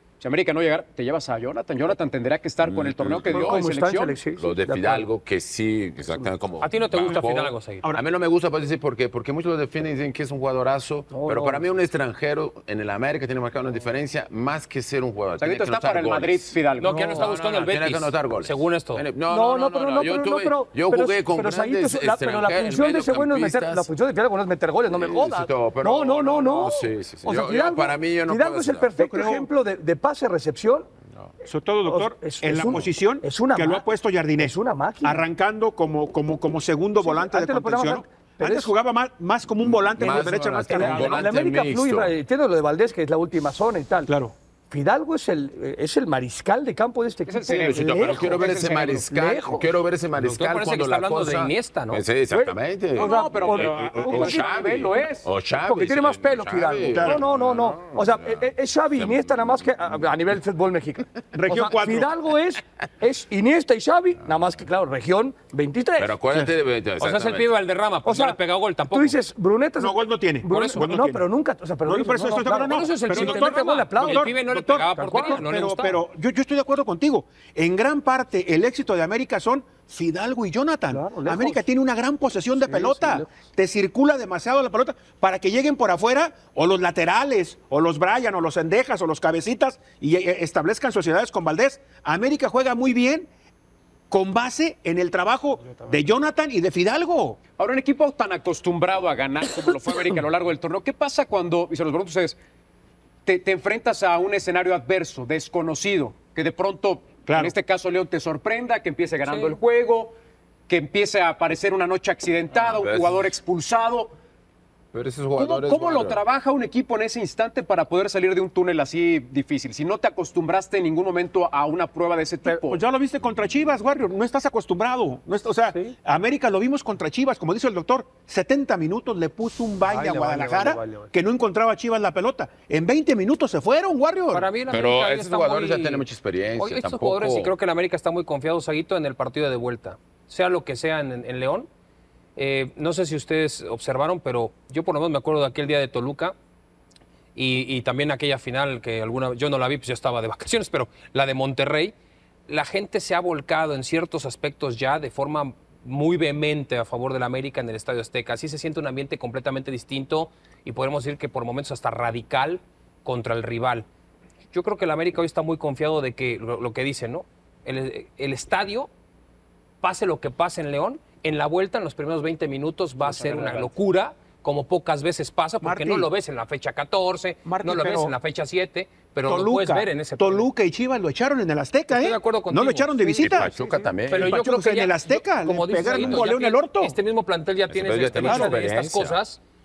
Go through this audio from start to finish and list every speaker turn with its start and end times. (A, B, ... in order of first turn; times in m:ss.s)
0:00.2-0:04.2 A
0:02.6-0:03.6 B
0:03.3-0:05.1 C
0:04.4-0:16.6 B
0:06.0-0:06.3 C
0:06.6-0:07.8 D
0:11.1-0:11.6 C
0:15.4-0:17.3 A
0:16.8-0:19.0 D
0:17.2-0:23.9 B
0:19.3-0:30.9 C
0:24.9-0:28.9 B
0:29.0-0:29.5 E
0:31.4-0:41.3 E
0:31.8-0:33.9 C
0:34.4-0:35.2 C
0:37.0-0:38.7 C
0:39.9-0:42.1 B
0:40.1-0:44.1 C
0:44.1-0:44.3 E
0:44.7-0:49.7 C
0:47.3-0:49.1 A
0:47.5-0:59.9 B
0:50.2-0:52.0 D
0:52.3-0:54.6 C
0:53.0-0:55.2 A
0:55.6-1:06.2 C
0:56.9-0:57.2 E
1:01.3-1:02.1 E
1:06.0-1:07.5 B
1:07.0-1:09.2 D
1:08.0-1:08.4 C
1:08.9-1:14.3 C
1:09.8-1:11.2 E
1:10.5-1:10.9 D
1:11.9-1:33.3 E
1:12.5-1:16.0 D
1:15.0-1:15.4 C
1:20.9-1:21.6 C
1:22.6-1:23.3 C
1:34.1-1:37.4 E
1:37.5-1:42.4 A
1:43.2-1:50.2 A
1:47.3-1:47.6 E
1:49.3-1:49.5 D
1:50.7-1:54.1 A
1:52.6-1:53.3 B
1:54.9-1:56.2 B
1:55.4-2:02.8 A
2:02.5-2:14.5 E
2:09.8-2:11.1 C
2:14.3-2:21.7 D
2:14.7-2:17.5 B
2:22.4-2:26.4 D
2:27.4-2:31.9 D
2:32.5-2:43.9 D
2:44.5-2:48.9 D
2:49.8-3:00.5 D
2:53.0-2:53.7 A
2:55.6-2:56.1 E
2:57.5-2:58.1 E
2:59.3-3:03.5 E
3:01.9-3:09.4 D
3:03.2-3:04.4 B
3:04.1-3:07.0 E
3:05.9-3:06.3 B
3:07.7-3:09.2 B
3:08.2-3:08.6 E